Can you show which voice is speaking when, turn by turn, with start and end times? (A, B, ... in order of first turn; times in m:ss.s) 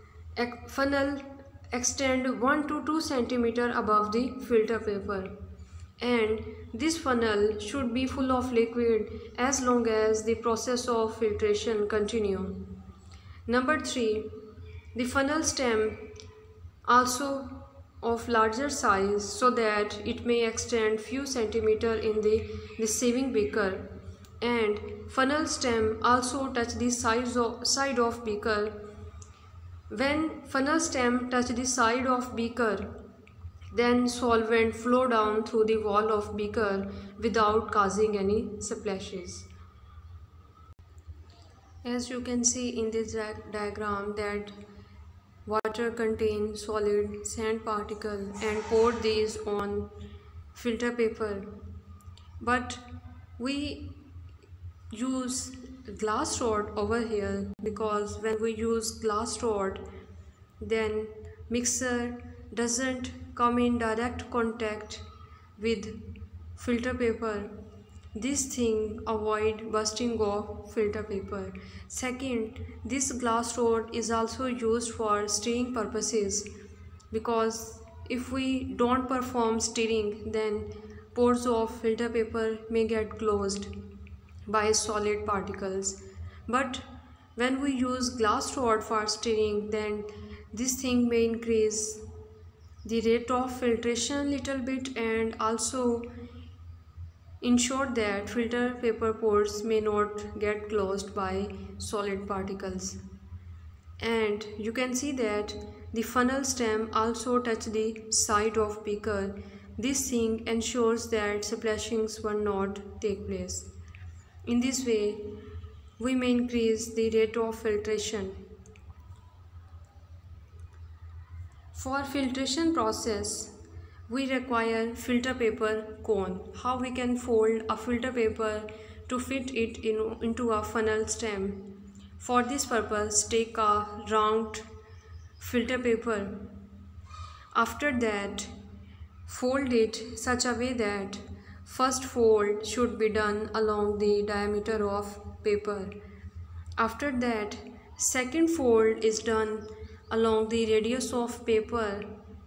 0:00.4-0:05.3 A
0:06.0-0:12.7 A
0:13.5-0:14.3 A
0:15.0-0:16.1 A
0:16.8-0:23.9 A
0:24.4-0:28.8 A
0:29.9-0:33.0 A
0:33.7-0:39.5 A
0:41.8-0:44.6 A
0:45.5-0:49.9 A
0:50.6-0:51.5 A
0:52.4-0:52.8 A
0:53.4-0:54.0 A
0:54.9-0:59.8 A
1:00.6-1:05.0 A
1:05.6-1:06.0 A
1:06.6-1:07.5 A
1:08.2-1:16.5 A
1:17.1-1:23.7 A
1:24.5-1:32.0 A
1:32.8-1:36.1 A
1:37.4-1:43.0 A
1:44.0-1:53.7 A
1:54.5-1:55.3 A
1:56.0-1:58.4 A
2:01.7-2:03.5 A
2:04.1-2:14.7 A
2:15.4-2:16.4 A
2:17.5-2:18.5 A
2:19.3-2:25.9 A
2:26.8-2:32.1 A